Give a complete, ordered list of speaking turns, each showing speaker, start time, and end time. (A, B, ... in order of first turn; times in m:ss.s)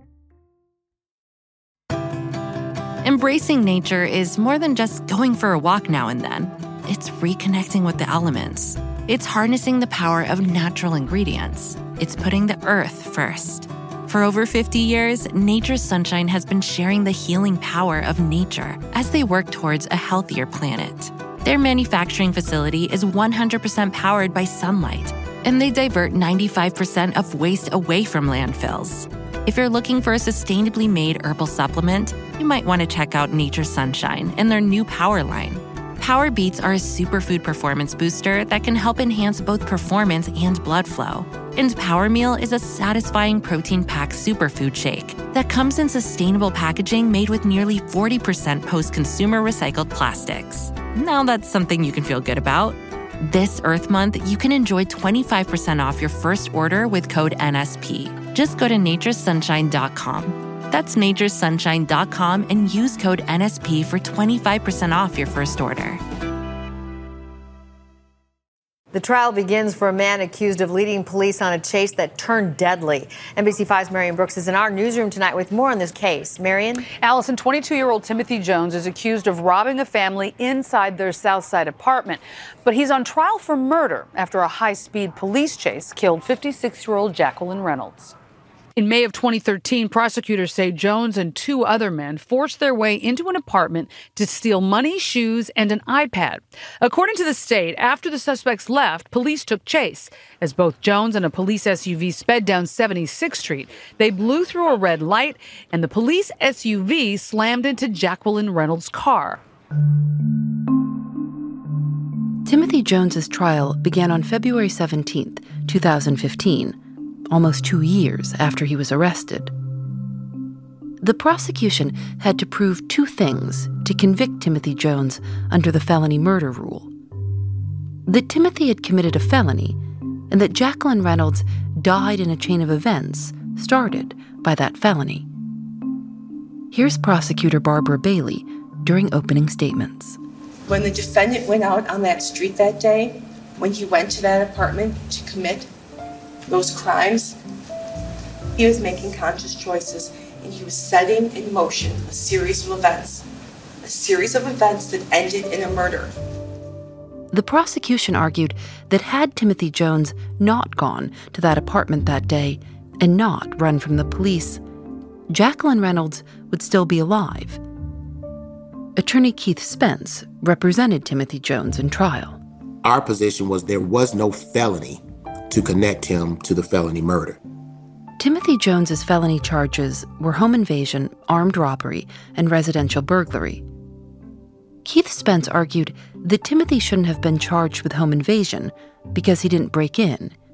0:03.0-1:06.0 A
1:08.9-1:16.8 B
1:17.0-1:28.1 C
1:28.8-1:49.4 C
1:52.4-1:56.8 D
1:57.3-1:59.5 D
2:01.0-2:06.9 D
2:08.0-2:09.8 D
2:10.3-2:15.3 D
2:16.7-2:20.2 D
2:20.6-2:25.7 E
2:26.5-2:27.4 E
2:28.6-2:33.2 E
2:33.8-2:36.1 E
2:37.3-2:44.6 D
2:45.3-2:47.6 D
2:49.0-2:52.4 D
2:52.8-2:57.4 F
2:58.2-3:03.6 D
3:04.8-3:10.3 D